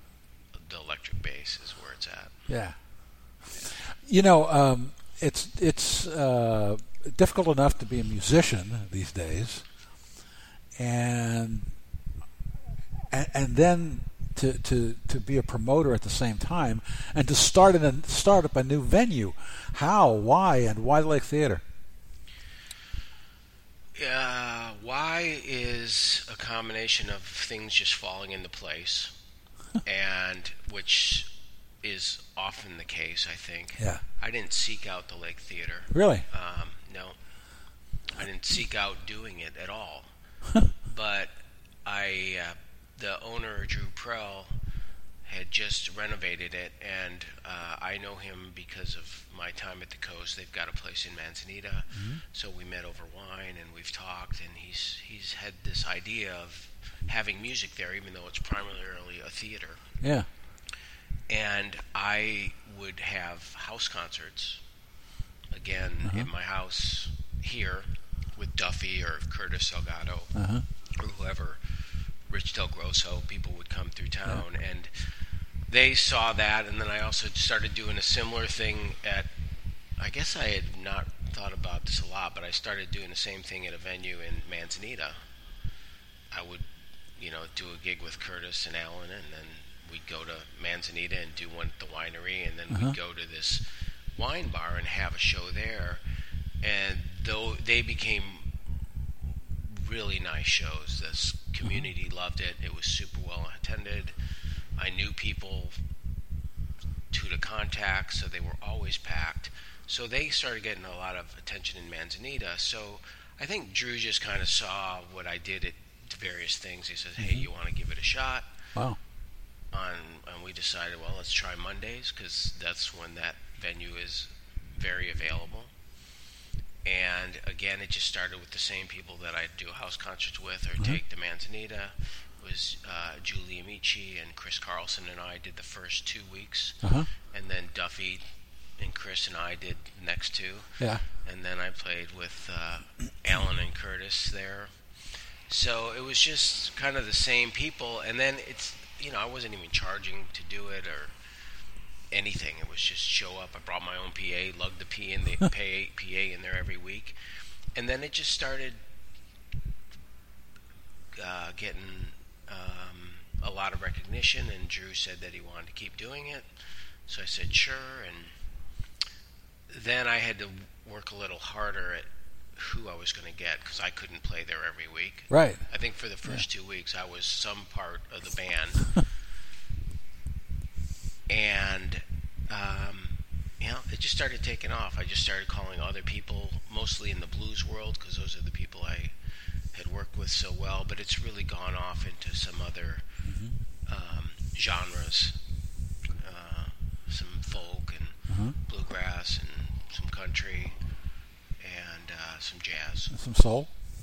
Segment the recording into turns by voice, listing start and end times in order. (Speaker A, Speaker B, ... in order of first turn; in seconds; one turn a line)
Speaker A: 0.6-2.5
Speaker B: 2.5-2.8
Speaker B: 3.6-9.6
Speaker B: 10.8-11.7
Speaker B: 13.1-21.6
Speaker A: 23.9-29.1
Speaker A: 29.8-31.3
Speaker A: 31.8-37.2
Speaker B: 35.9-36.2
Speaker A: 38.2-40.1
Speaker A: 40.8-41.3
Speaker A: 41.9-44.5
Speaker A: 45.3-59.8
Speaker B: 51.9-52.2
Speaker B: 60.0-60.3
Speaker A: 61.3-64.6
Speaker A: 65.5-70.3
Speaker B: 70.3-70.7
Speaker A: 71.0-71.6
Speaker A: 72.3-74.9
Speaker A: 75.7-79.3
Speaker A: 80.0-85.2
Speaker A: 86.3-86.7
Speaker A: 87.2-96.0
Speaker B: 92.7-93.0
Speaker A: 96.6-98.5
Speaker A: 99.5-104.2
Speaker A: 104.8-105.7
Speaker A: 107.1-118.5
Speaker B: 117.2-117.5
Speaker A: 119.7-125.7
Speaker A: 126.8-138.2
Speaker B: 136.8-137.1
Speaker A: 138.8-144.7
Speaker B: 140.8-141.1
Speaker A: 145.5-151.1
Speaker A: 152.1-157.2
Speaker A: 157.8-158.8
Speaker A: 161.2-166.5
Speaker A: 167.1-168.3
Speaker A: 169.7-179.0
Speaker B: 175.3-175.6
Speaker A: 181.3-189.1
Speaker A: 189.7-193.1
Speaker B: 193.2-193.5
Speaker A: 193.9-195.4
Speaker A: 196.2-200.8
Speaker B: 198.3-198.6
Speaker A: 201.6-203.1
Speaker B: 203.1-203.7